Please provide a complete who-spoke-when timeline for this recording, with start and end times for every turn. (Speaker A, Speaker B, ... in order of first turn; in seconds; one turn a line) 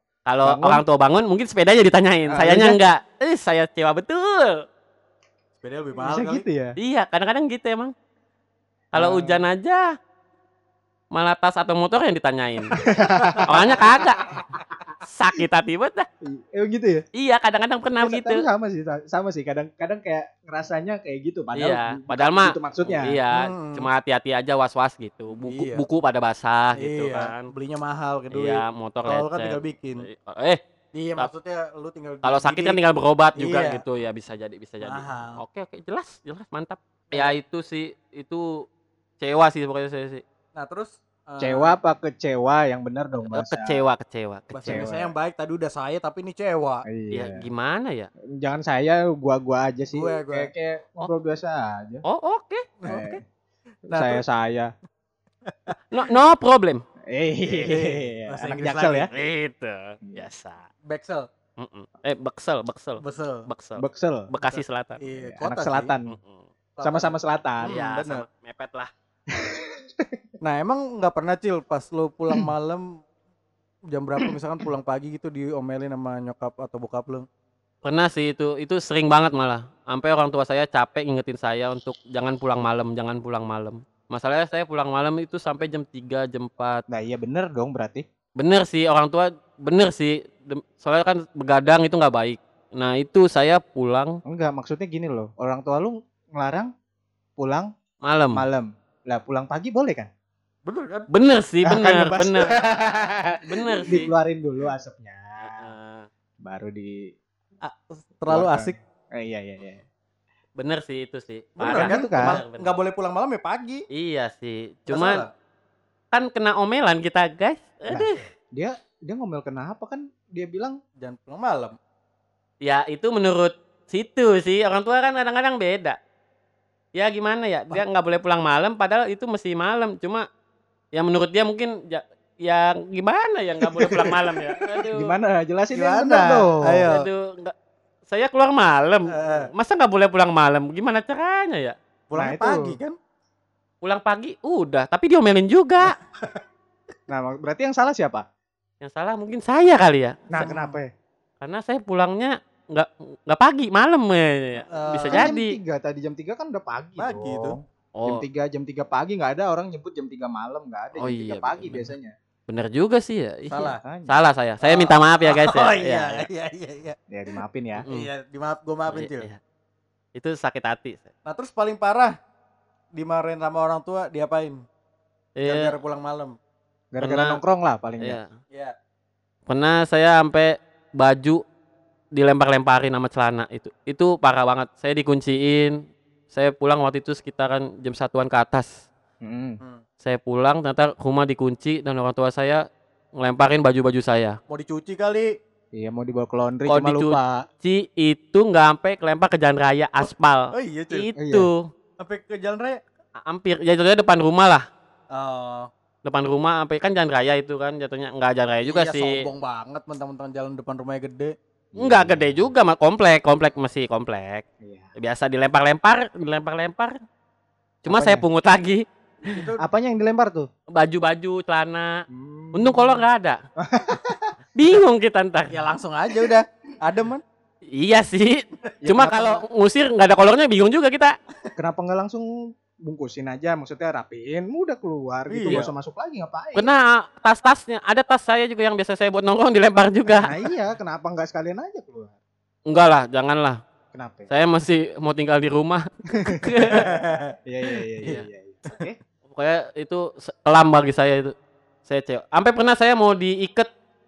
Speaker A: 0.3-4.7
Speaker B: 0.4-0.8
Speaker B: 2.3-2.8
Speaker C: 5.6-6.5
Speaker B: 6.0-6.8
Speaker A: 6.8-7.9
Speaker A: 8.9-9.9
Speaker B: 8.9-9.5
Speaker A: 11.1-12.8
Speaker B: 12.7-14.1
Speaker C: 13.2-14.0
Speaker A: 13.4-14.4
Speaker A: 15.0-16.1
Speaker B: 16.2-17.0
Speaker A: 17.2-18.5
Speaker B: 18.0-23.2
Speaker A: 21.6-27.5
Speaker C: 23.3-23.9
Speaker C: 25.5-25.9
Speaker C: 26.8-30.1
Speaker A: 28.3-30.6
Speaker C: 30.9-32.8
Speaker A: 32.2-38.7
Speaker C: 33.4-33.8
Speaker C: 34.8-35.4
Speaker A: 39.2-40.2
Speaker C: 40.6-41.8
Speaker B: 41.4-43.8
Speaker A: 43.3-44.9
Speaker C: 44.5-46.9
Speaker B: 44.7-45.1
Speaker B: 46.9-47.5
Speaker A: 47.1-48.1
Speaker B: 48.4-52.0
Speaker C: 49.9-50.5
Speaker A: 52.0-52.6
Speaker C: 52.8-53.1
Speaker B: 52.9-53.2
Speaker C: 53.9-54.2
Speaker B: 53.9-54.7
Speaker C: 55.5-55.8
Speaker A: 55.9-56.8
Speaker B: 57.1-59.1
Speaker C: 57.5-59.1
Speaker A: 59.1-60.7
Speaker C: 60.9-61.3
Speaker A: 61.6-65.0
Speaker C: 63.0-63.5
Speaker B: 63.8-64.3
Speaker C: 64.4-65.9
Speaker B: 65.2-66.2
Speaker A: 66.1-66.5
Speaker C: 66.8-68.2
Speaker B: 66.8-67.8
Speaker A: 67.6-68.9
Speaker B: 69.3-70.2
Speaker C: 70.4-72.9
Speaker C: 73.9-77.3
Speaker A: 77.8-86.8
Speaker B: 86.9-88.0
Speaker A: 88.4-94.2
Speaker B: 94.3-96.7
Speaker B: 97.4-97.7
Speaker A: 98.0-98.5
Speaker B: 98.3-100.1
Speaker C: 100.7-101.1
Speaker A: 101.1-102.5
Speaker B: 101.7-105.7
Speaker C: 102.6-103.1
Speaker A: 103.4-104.1
Speaker A: 105.4-106.1
Speaker B: 106.4-107.1
Speaker C: 107.6-108.8
Speaker B: 108.3-109.8
Speaker A: 110.6-112.7
Speaker C: 111.6-113.8
Speaker B: 111.7-112.4
Speaker A: 113.9-115.2
Speaker C: 114.9-115.3
Speaker A: 116.1-118.3
Speaker B: 117.9-120.8
Speaker C: 121.0-121.8
Speaker A: 122.6-126.0
Speaker A: 127.0-130.3
Speaker A: 130.9-135.1
Speaker B: 134.9-136.9
Speaker C: 135.7-137.1
Speaker A: 136.9-137.5
Speaker A: 138.1-141.8
Speaker C: 139.1-139.5
Speaker C: 142.1-143.0
Speaker B: 142.2-142.8
Speaker A: 143.8-146.0
Speaker B: 147.1-148.3
Speaker A: 148.8-150.2
Speaker B: 150.3-150.9
Speaker C: 150.4-150.8
Speaker A: 151.4-155.6
Speaker C: 154.7-155.3
Speaker B: 155.1-162.2
Speaker C: 157.0-157.6
Speaker A: 157.9-158.2
Speaker A: 161.0-161.9
Speaker A: 162.5-166.3
Speaker C: 163.5-163.8
Speaker B: 163.8-164.2
Speaker C: 164.6-167.0
Speaker B: 167.1-167.9
Speaker A: 167.8-168.1
Speaker C: 167.9-169.3
Speaker A: 168.9-169.4
Speaker A: 170.2-171.1
Speaker C: 171.3-172.2
Speaker C: 172.9-174.6
Speaker A: 175.4-175.7
Speaker C: 175.4-176.4
Speaker B: 176.9-178.2
Speaker A: 177.0-177.4
Speaker A: 178.0-178.3
Speaker A: 179.5-181.4
Speaker A: 182.2-185.8
Speaker A: 186.3-188.9
Speaker B: 189.2-189.6
Speaker A: 190.0-192.6
Speaker A: 193.2-194.4
Speaker C: 194.5-195.3
Speaker B: 195.8-197.5
Speaker A: 196.7-201.7
Speaker C: 200.5-201.1
Speaker B: 201.2-201.5
Speaker C: 202.0-202.8
Speaker A: 203.3-204.7
Speaker C: 205.1-205.7
Speaker A: 206.0-209.2
Speaker C: 208.7-211.3
Speaker B: 211.7-212.5
Speaker A: 211.8-214.4
Speaker B: 214.6-214.9
Speaker A: 215.0-217.0
Speaker A: 217.8-219.4
Speaker B: 217.9-218.2
Speaker C: 219.2-219.6
Speaker B: 219.6-220.5
Speaker A: 220.7-223.4
Speaker B: 222.1-223.0
Speaker B: 223.6-224.3
Speaker A: 224.6-225.7
Speaker C: 225.5-227.2
Speaker A: 227.7-231.2
Speaker B: 228.8-229.4
Speaker B: 231.6-232.3
Speaker B: 232.8-236.7
Speaker C: 235.3-235.6
Speaker A: 236.6-240.3
Speaker B: 240.2-242.2
Speaker A: 242.7-243.6
Speaker B: 243.9-244.3
Speaker A: 244.3-246.9
Speaker B: 246.1-249.0
Speaker C: 246.7-247.4
Speaker C: 248.1-248.9
Speaker A: 249.3-251.3
Speaker A: 251.9-253.7